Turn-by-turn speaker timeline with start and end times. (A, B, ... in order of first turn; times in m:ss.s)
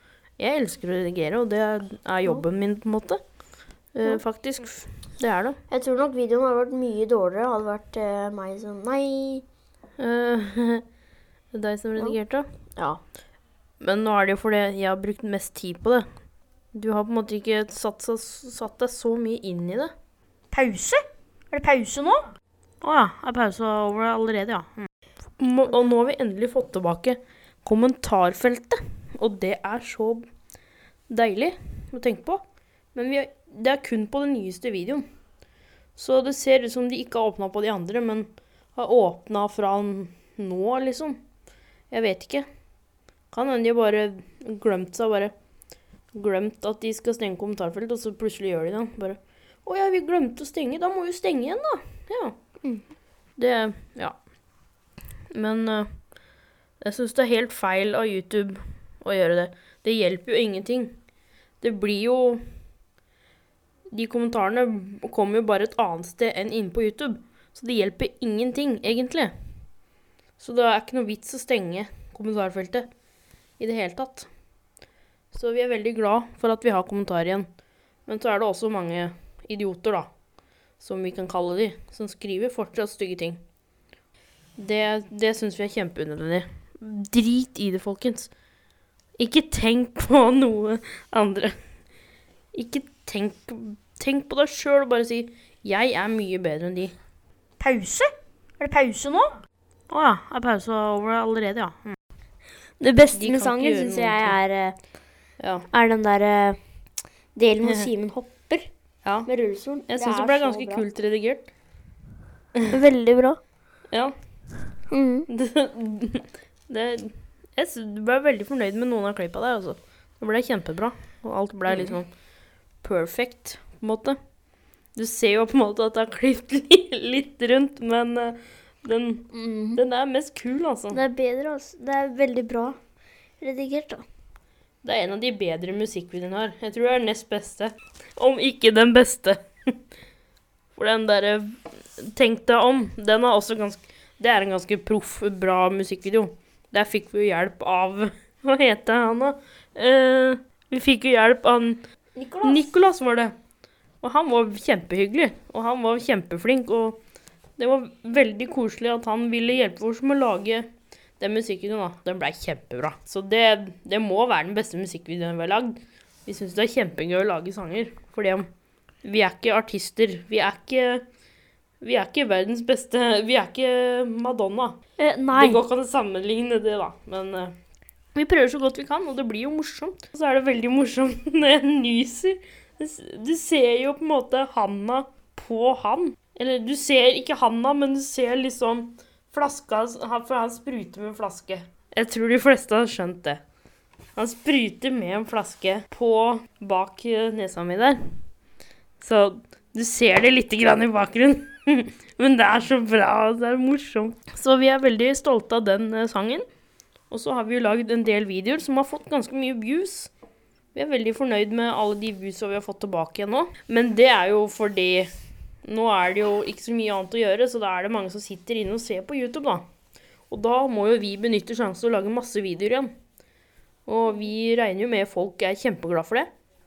0:00.4-0:03.2 A
0:03.9-0:05.6 A
0:05.7-0:09.4 B
0:10.0-0:10.8 A
0:11.5-0:12.5 A
0:12.8-0:13.0 B
0:13.8-0:16.1 A
0:16.7-0:19.9 A
0:20.5-0:22.3 B
0:22.8-0:30.2 A
0:31.1-0:32.4 A
0:32.9-0:35.0 A
0:36.0-0:41.2 A
0:41.9-0:42.4 A
0:43.3-0:45.3 A
0:46.1-0:52.4 A
0:53.4-0:54.2 A
0:55.3-0:56.0 A
0:56.8-1:01.0 A
1:01.6-1:02.4 A
1:03.9-1:09.3 A
1:10.4-1:12.9 A
1:13.6-1:14.3 A
1:15.3-1:17.5 A
1:18.0-1:20.1 A
1:20.8-1:23.4 A
1:24.6-1:28.3 A
1:29.2-1:31.6 A
1:32.5-1:36.9 A
1:37.6-1:39.4 B
1:39.9-1:42.0 A
1:42.8-1:44.8 B
1:43.1-1:44.4 A
1:45.4-1:45.7 A
1:45.7-1:46.6 B
1:47.3-1:48.7 B
1:49.0-1:49.3 A
1:49.2-1:50.8 B
1:49.9-1:51.5 A
1:52.7-1:53.4 B
1:54.9-1:55.3 B
1:55.3-2:02.1 A
2:02.8-2:04.2 A
2:04.9-2:11.0 A
2:09.3-2:09.8 B
2:10.9-2:12.8 B
2:13.4-2:14.0 B
2:14.8-2:19.8 A
2:20.7-2:31.8 A
2:32.2-2:32.7 B
2:32.4-2:33.3 A
2:34.0-2:37.0 A
2:37.6-2:48.5 A
2:49.0-2:51.0 A
2:51.8-2:54.8 A
2:55.0-2:55.6 B
2:55.3-2:57.6 A
2:58.1-3:13.4 A
3:14.2-3:18.1 A
3:19.0-3:26.4 A
3:27.1-3:30.1 A
3:30.7-3:35.1 A
3:35.6-3:39.6 A
3:40.3-3:42.9 A
3:43.8-3:46.3 A